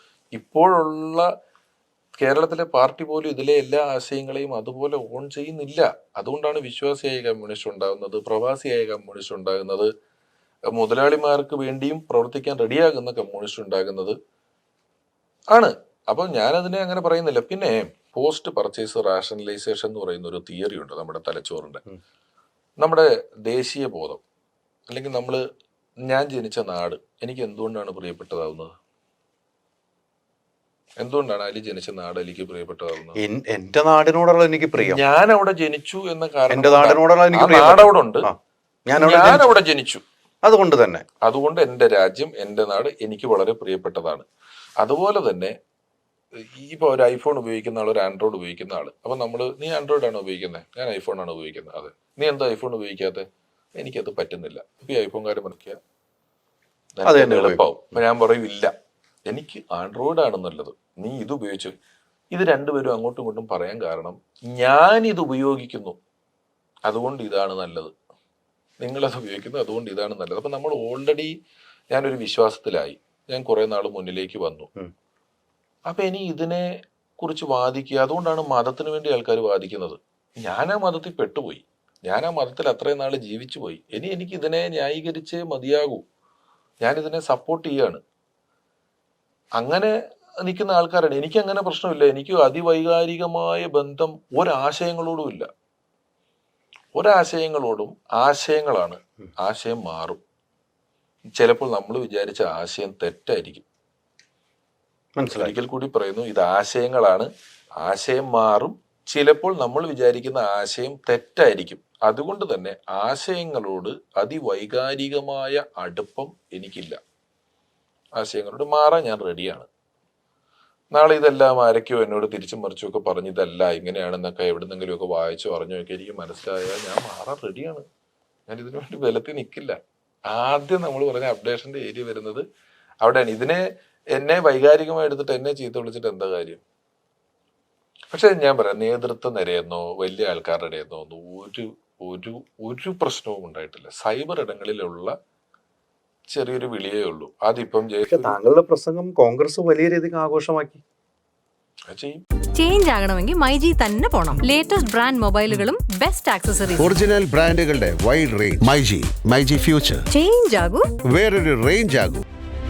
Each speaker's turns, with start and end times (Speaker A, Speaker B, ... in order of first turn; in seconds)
Speaker A: 0.3-1.3, 2.2-9.9, 10.7-14.2, 15.5-21.8, 22.8-24.2, 24.9-25.4, 26.1-28.7, 31.0-33.2, 34.8-38.3, 39.0-40.0, 41.2-44.3, 44.8-45.5, 46.4-53.2, 53.8-55.8, 57.0-58.7, 59.3-61.7, 62.3-66.0, 66.9-67.9, 68.8-71.3, 71.9-74.7, 75.9-76.7, 77.2-86.0, 86.8-88.0, 89.6-95.5, 97.0-100.2, 101.4-103.7, 105.3-107.3, 107.8-117.0, 118.2-119.7, 120.9-127.8, 128.5-129.8, 130.3-132.4, 133.0-133.6, 134.1-136.6, 138.1-145.1, 146.3-148.4, 151.9-152.2
Speaker B: 33.2-35.0, 36.5-38.4, 38.9-39.5, 40.4-41.0, 57.1-58.0, 105.2-105.6, 148.1-150.8
Speaker C: 152.6-156.9, 160.1-160.9
Speaker D: 156.8-160.1, 161.1-162.2